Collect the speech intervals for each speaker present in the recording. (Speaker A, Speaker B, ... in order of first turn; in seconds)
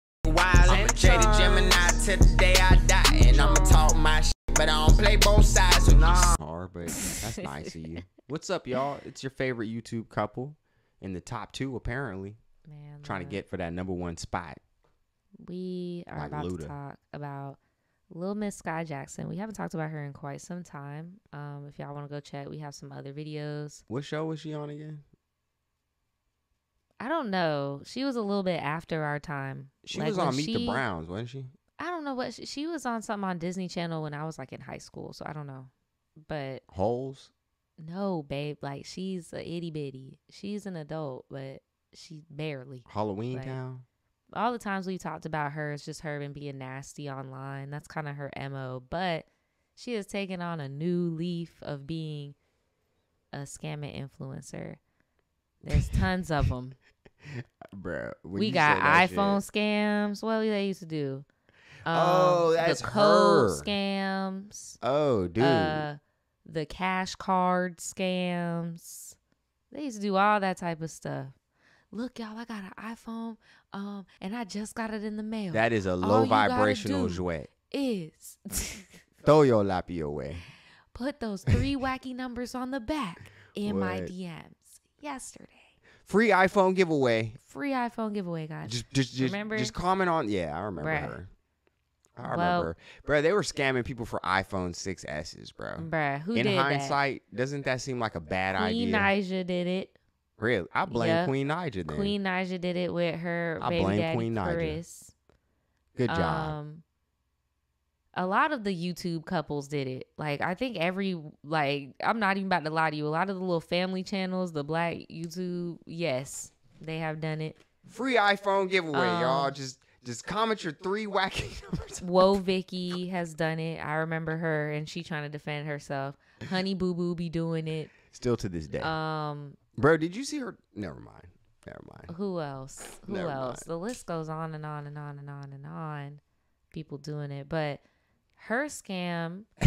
Speaker A: 0.2-6.1
Speaker B: 0.6-2.1, 2.7-3.9, 5.8-12.4, 13.0-14.6, 16.1-16.7, 23.9-25.0, 29.8-31.5, 36.7-37.3, 42.9-43.8, 55.7-56.0, 57.3-59.4, 61.9-63.7, 64.8-65.9, 75.5-77.5, 79.2-80.4, 83.6-84.1, 86.0-87.4, 88.6-91.3, 92.2-99.1, 100.4-102.2, 103.6-104.8, 106.0-106.6, 117.9-122.4, 128.1-128.9, 129.8-132.1, 133.1-133.7
Speaker C: 6.9-8.0, 12.7-13.4, 15.4-17.6, 18.1-23.8, 27.0-30.8, 31.8-36.6, 37.8-43.6, 44.3-52.4, 53.3-54.8, 55.6-56.8, 58.3-61.2, 61.9-64.8, 65.4-69.2, 69.7-71.3, 71.9-79.0, 80.9-85.7, 87.4-89.7, 90.8-91.2, 92.2-92.7, 95.8-97.0, 98.5-100.0, 100.9-105.1, 106.1-106.8, 108.1-117.6, 118.9-119.5, 122.0-127.9, 128.8-129.6, 132.1-137.8, 138.4-139.5